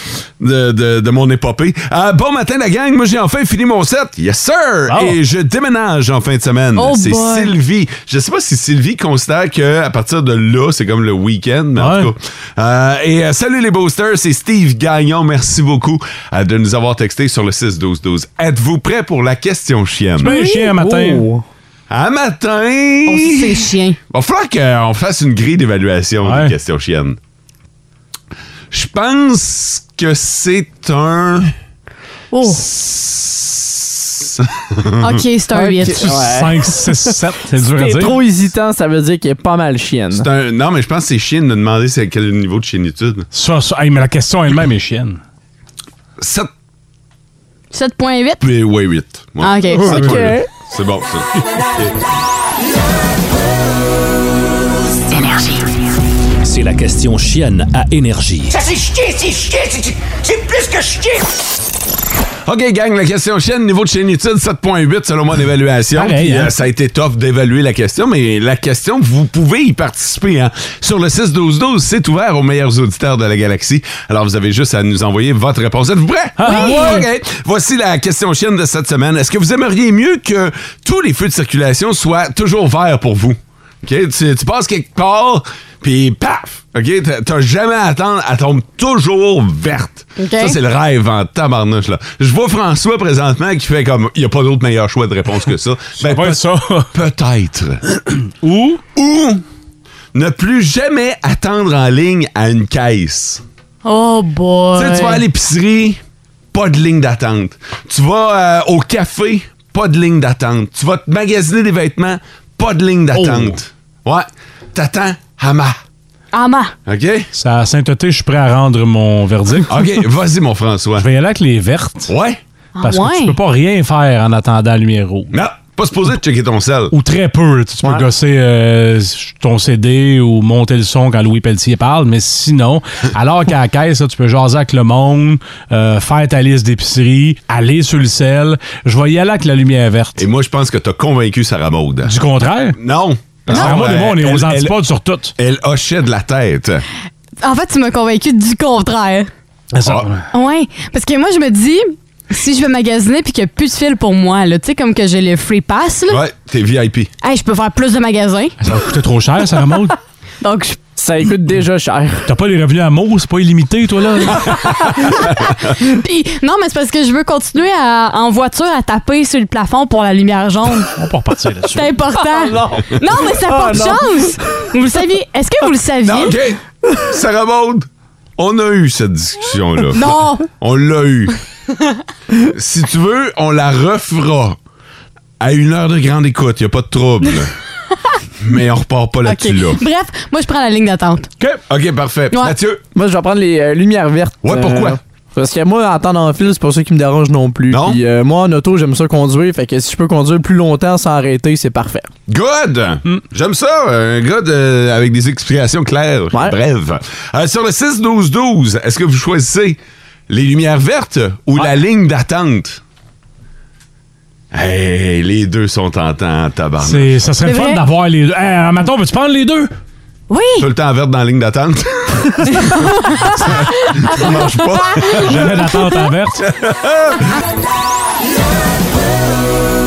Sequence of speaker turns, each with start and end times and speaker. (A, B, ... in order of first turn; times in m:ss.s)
0:00.4-0:20.3 A
0:04.9-0:05.2 B
0:06.8-0:07.5 C
0:11.8-0:12.1 B
0:20.2-0:21.3 B
0:20.3-0:20.7 C
0:20.3-0:21.4 D
0:21.9-0:27.2 A
0:23.1-0:24.0 C
0:26.2-0:26.5 B
0:28.7-0:31.5 A
0:32.3-0:32.6 C
0:32.4-0:35.2 A
0:35.0-0:36.1 C
0:35.6-0:40.3 D
0:36.0-0:38.2 B
0:40.1-0:43.3 A
0:43.3-0:45.2 B
0:46.2-0:46.5 A
0:47.7-0:48.4 C
0:48.4-0:52.0 A
0:49.4-0:50.0 C
0:49.9-0:50.5 D
0:56.4-0:58.6 E
0:58.5-1:01.3 F
1:02.5-1:38.0 A
1:06.0-1:06.5 B
1:16.4-1:17.0 B
1:16.4-1:17.0 C
1:30.2-1:30.6 C
1:36.0-1:36.9 B
1:38.4-1:38.8 B
1:39.0-1:39.4 A
1:40.1-1:43.4 A
1:43.8-1:45.2 C
1:44.8-1:46.0 A
1:46.5-1:55.8 A
1:53.1-1:53.5 B
1:56.3-1:56.7 C
1:56.9-1:57.3 A
1:57.4-1:59.7 B
1:59.7-2:01.1 A
2:01.0-2:02.1 B
2:02.1-2:02.4 A
2:02.8-2:03.4 C
2:02.8-2:05.3 B
2:05.3-2:07.0 A
2:06.9-2:20.2 B
2:20.2-2:22.2 A
2:22.0-2:22.8 B
2:22.7-2:24.8 A
2:23.5-2:23.8 C
2:23.5-2:25.3 B
2:25.4-2:26.8 A
2:27.4-2:29.3 C
2:29.7-2:30.2 B
2:29.8-2:30.1 A
2:30.3-2:36.2 C
2:36.1-2:37.1 A
2:37.2-2:38.6 C
2:38.6-2:40.0 B
2:40.4-2:40.8 C
2:41.0-2:42.3 D
2:42.3-2:45.0 B
2:45.2-2:50.9 C
2:51.0-2:51.9 B
2:51.7-2:56.4 C
2:52.2-2:54.4 D
2:56.0-3:01.4 A
2:59.9-3:00.4 C
3:02.4-3:04.6 A
3:05.4-3:07.5 A
3:08.4-3:09.8 A
3:09.2-3:11.3 C
3:11.7-3:12.8 A
3:13.0-3:22.1 D
3:14.4-3:15.0 A
3:17.7-3:18.0 A
3:22.3-3:29.8 A
3:30.3-3:32.8 A
3:34.5-3:37.2 A
3:36.8-3:39.7 B
3:37.4-3:37.8 C
3:40.3-3:40.7 C
3:40.6-3:42.6 A
3:43.1-3:43.3 C
3:43.3-3:45.7 A
3:45.2-3:46.5 B
3:46.4-3:47.3 A